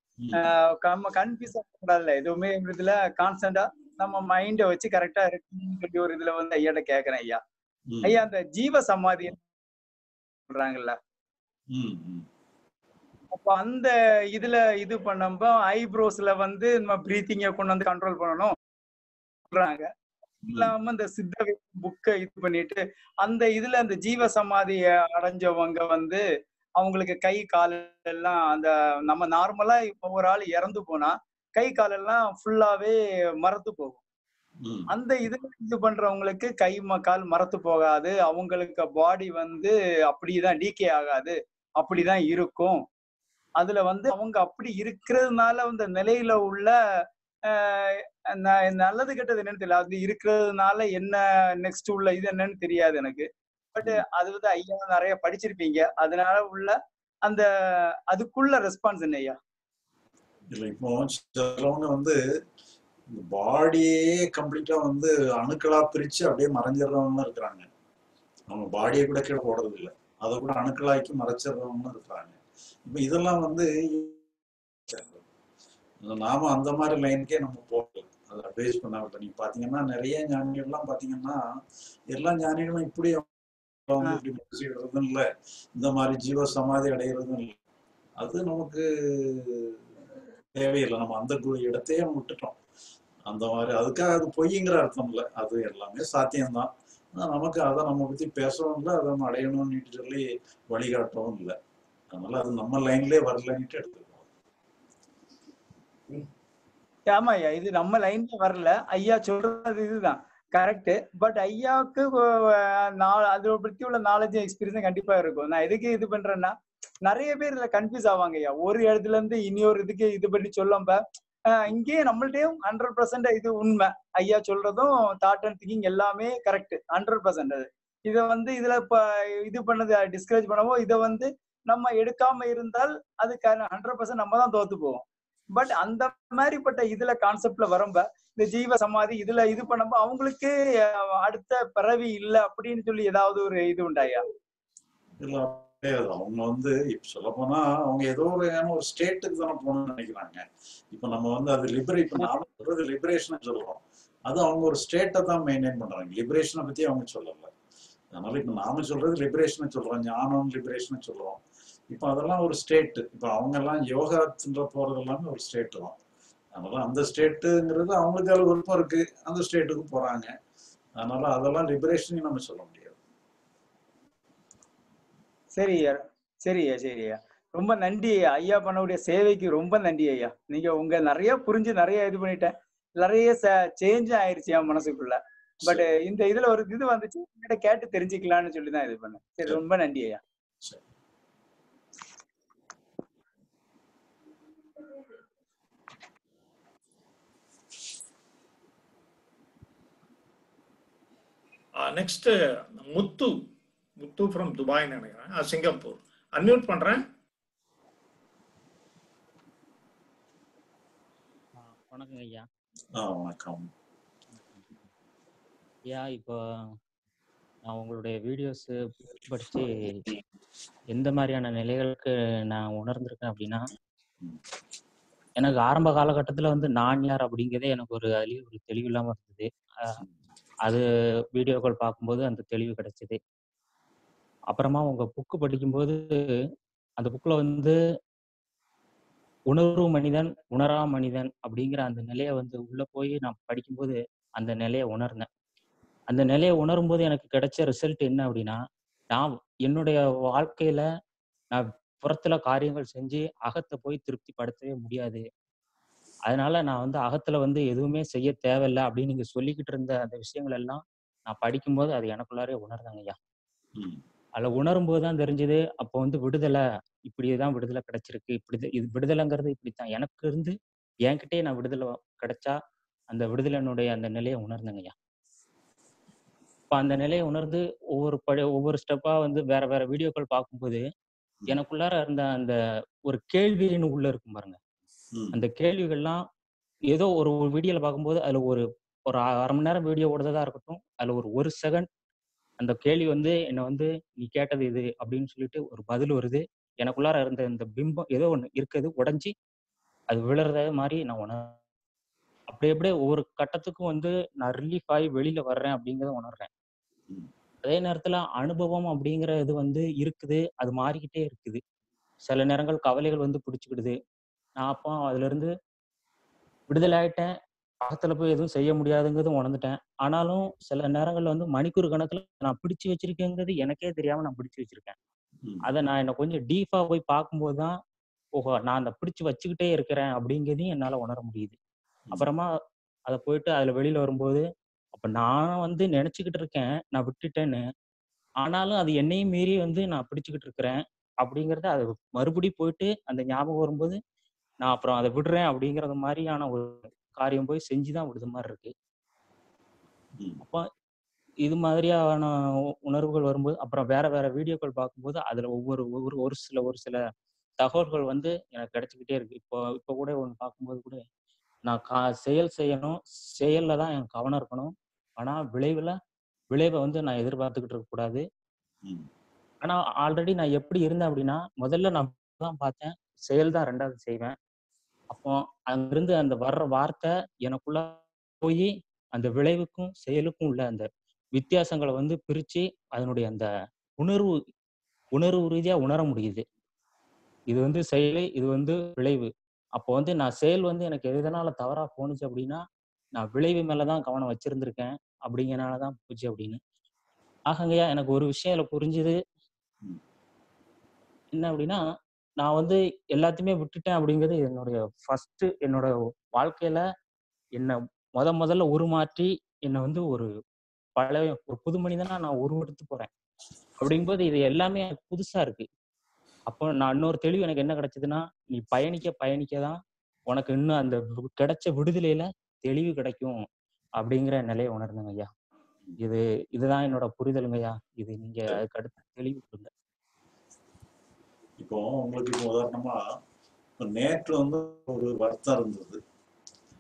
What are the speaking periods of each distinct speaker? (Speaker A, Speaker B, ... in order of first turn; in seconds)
Speaker A: 0.2-0.5, 7.9-8.2, 11.7-12.3, 20.5-20.7, 34.6-34.9, 60.5-62.2, 63.1-67.7, 68.5-74.2, 74.9-75.2, 76.0-81.4, 82.1-83.3, 83.9-87.5, 88.2-89.8, 90.5-92.6, 93.3-101.5, 102.1-104.3, 145.2-157.5, 158.2-161.4, 161.9-166.0, 166.6-170.3, 171.0-173.0, 185.6-185.9, 213.0-213.7, 263.8-264.0, 285.1-285.4, 431.6-433.0, 433.8-436.0
Speaker B: 0.3-7.4, 8.0-9.4, 10.5-11.0, 13.3-18.6, 19.5-19.9, 20.6-26.2, 26.8-34.0, 34.9-42.9, 43.6-46.8, 47.5-56.8, 58.1-59.4, 107.1-116.5, 117.1-121.0, 121.5-144.2, 175.6-190.2
Speaker C: 201.8-203.3, 204.0-207.0
Speaker D: 211.6-212.5, 215.9-216.8, 217.7-220.1, 220.9-223.7, 225.4-230.0, 231.3-233.2, 234.5-236.1, 237.0-237.8, 239.5-245.3, 246.1-248.6, 249.1-250.8, 251.5-255.2, 256.3-263.2, 264.4-272.6, 273.1-274.9, 276.7-280.9, 281.5-284.6, 285.3-286.2, 286.9-291.9, 292.6-299.3, 300.1-301.6, 302.5-306.5, 307.6-311.6, 312.2-314.0, 314.6-315.5, 316.7-317.3, 317.8-325.0, 325.6-327.8, 328.4-331.6, 332.1-332.5, 333.1-337.6, 338.4-344.0, 344.6-348.7, 350.4-350.7, 351.4-357.0, 357.6-361.1, 361.7-366.0, 366.5-368.2, 369.6-374.4, 375.1-383.5, 384.0-384.4, 385.1-386.4, 387.5-392.6, 393.1-396.6, 397.5-399.2, 401.3-401.8, 402.4-406.8, 407.6-410.3, 411.0-413.1, 413.8-415.7, 416.5-423.4, 424.0-425.3, 426.0-429.7